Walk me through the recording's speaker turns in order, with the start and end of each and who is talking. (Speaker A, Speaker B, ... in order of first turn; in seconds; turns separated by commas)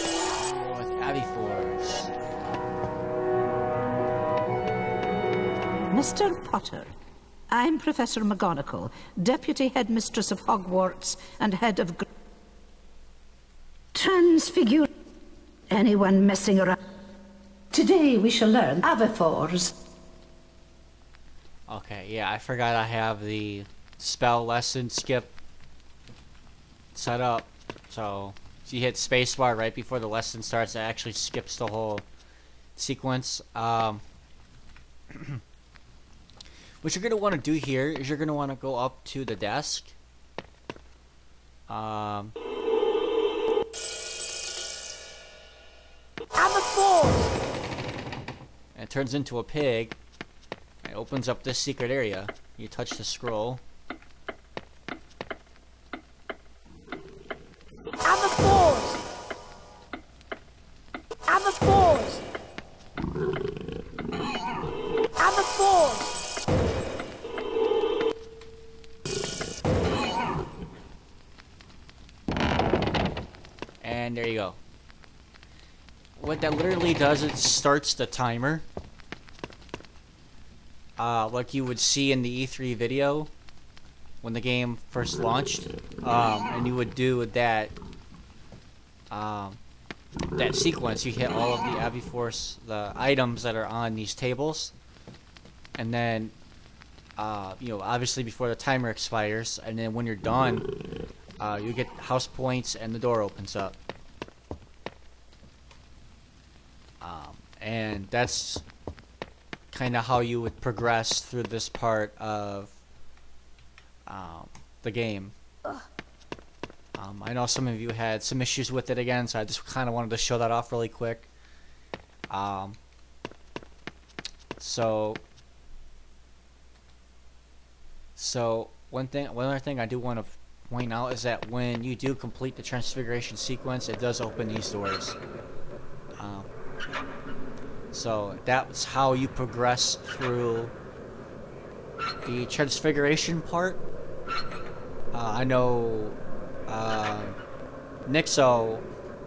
Speaker A: 0.3-2.1, Speaker B: 5.9-6.9, Speaker B: 7.5-12.0, Speaker B: 13.9-14.9, Speaker B: 15.7-16.7, Speaker B: 17.7-19.7, Speaker A: 21.7-25.3, Speaker A: 26.9-32.0, Speaker A: 32.8-34.0, Speaker A: 35.1-35.4, Speaker A: 36.8-39.9, Speaker A: 41.7-42.3, Speaker C: 46.3-47.3, Speaker A: 48.7-50.0, Speaker A: 50.8-53.6, Speaker C: 58.0-59.0, Speaker C: 61.3-62.2, Speaker C: 65.2-66.1, Speaker A: 73.8-74.6, Speaker A: 76.2-78.7, Speaker A: 81.0-83.3, Speaker A: 84.2-87.7, Speaker A: 89.1-89.6, Speaker A: 90.3-94.7, Speaker A: 95.8-96.3, Speaker A: 97.2-100.7, Speaker A: 101.4-103.8, Speaker A: 107.0-108.6, Speaker A: 109.7-112.8, Speaker A: 114.1-115.3, Speaker A: 117.0-121.3, Speaker A: 122.3-122.8, Speaker A: 124.6-125.2, Speaker A: 128.2-135.2, Speaker A: 136.2-136.5, Speaker A: 137.9-140.7, Speaker A: 142.2-143.8, Speaker A: 145.1-147.4, Speaker A: 148.1-148.8